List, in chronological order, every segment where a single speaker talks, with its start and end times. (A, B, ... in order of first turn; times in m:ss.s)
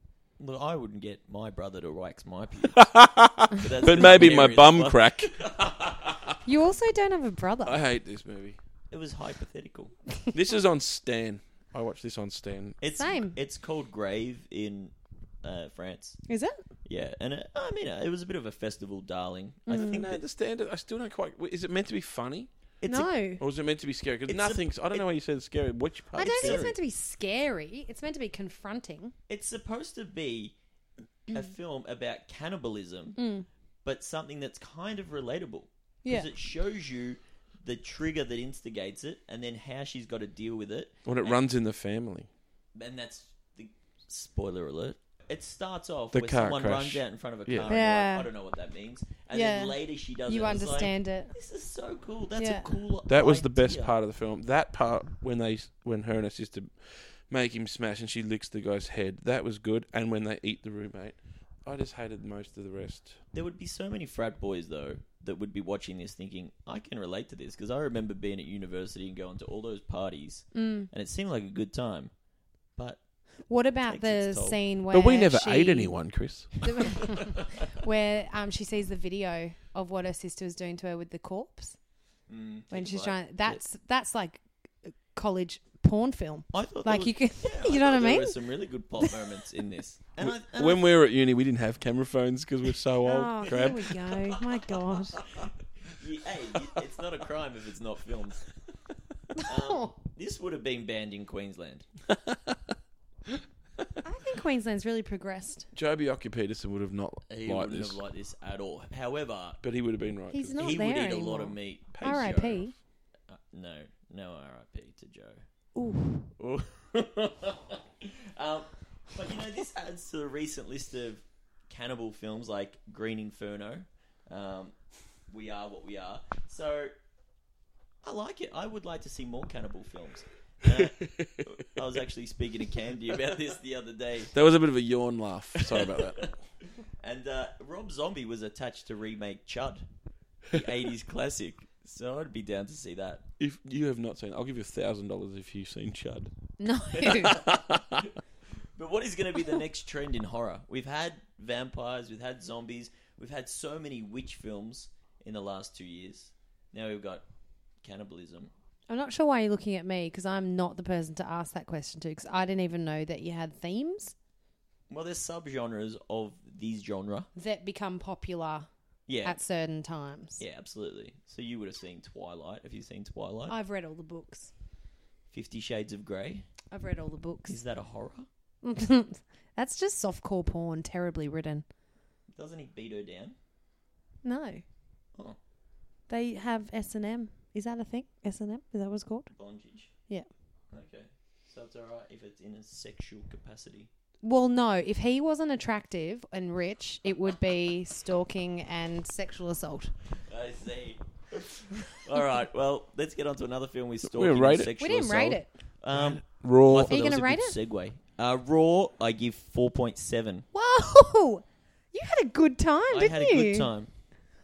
0:00.4-0:02.8 A
0:02.7-0:05.5 B
0:03.5-0:05.8 A
0:06.4-0:07.8 C
0:07.6-0:08.6 B
0:08.9-0:09.9 A
0:10.3-0:12.8 B
0:12.8-0:14.9 A
0:13.0-0:13.4 C
0:15.4-0:16.2 A
0:16.3-0:16.6 C
0:16.8-0:20.2 A
0:19.7-0:20.0 C
0:19.7-0:22.5 B
0:22.8-0:23.1 A
0:22.9-0:23.4 C
0:23.4-0:26.7 B
0:24.3-0:25.1 A
0:26.1-0:26.8 A
0:26.2-0:29.1 C
0:29.3-0:30.5 A
0:31.3-0:33.2 A
0:33.2-0:33.5 C
0:33.8-0:41.4 A
0:36.0-0:36.3 C
0:41.0-0:42.3 B
0:42.7-0:53.9 A
0:46.1-0:47.7 B
0:47.7-0:48.3 C
0:49.3-0:51.3 C
0:52.4-0:52.7 C
0:53.1-1:03.2 B
1:03.3-1:12.1 A
1:10.5-1:10.9 C
1:12.8-1:13.0 A
1:13.5-1:16.0 C
1:13.8-1:14.6 A
1:14.9-1:16.5 B
1:16.6-1:21.8 C
1:22.3-1:23.2 A
1:22.7-1:28.4 C
1:26.5-1:30.8 A
1:30.2-1:34.1 B
1:33.0-1:35.2 C
1:35.2-1:38.4 A
1:39.4-1:39.9 C
1:39.4-1:41.8 A
1:42.3-1:42.5 B
1:44.0-1:45.7 C
1:45.7-1:48.0 B
1:47.3-1:49.6 A
1:49.6-1:50.6 B
1:50.3-1:52.7 C
1:50.6-1:52.7 A
1:51.9-1:52.7 B
1:53.3-1:55.4 A
1:55.7-1:56.3 C
1:56.4-2:04.7 A
2:05.3-2:06.9 A
2:08.0-2:14.3 A
2:11.0-2:11.4 B
2:14.3-2:16.3 B
2:15.6-2:19.8 A
2:20.5-2:23.2 A
2:23.4-2:26.3 B
2:26.6-2:27.4 C
2:27.0-2:28.0 B
2:28.8-2:37.2 A
2:37.8-2:38.5 A
2:38.9-2:44.1 C
2:44.9-2:47.3 A
2:47.4-2:48.7 C
2:49.1-2:49.4 A
2:49.2-2:50.4 C
2:50.4-2:53.6 A
2:53.5-2:54.5 C
2:55.3-2:56.5 A
2:56.7-2:57.6 C
2:57.5-2:58.3 A
2:58.6-3:01.6 C
3:02.3-3:03.4 A
3:04.2-3:04.6 C
3:06.1-3:09.3 C
3:09.3-3:09.9 A
3:10.7-3:13.9 A
3:14.2-3:19.9 C
3:20.3-3:30.4 A
3:24.0-3:25.4 B
3:24.8-3:25.5 C
3:25.9-3:27.1 B
3:26.9-3:27.6 C
3:30.5-3:33.7 C
3:32.9-3:33.9 A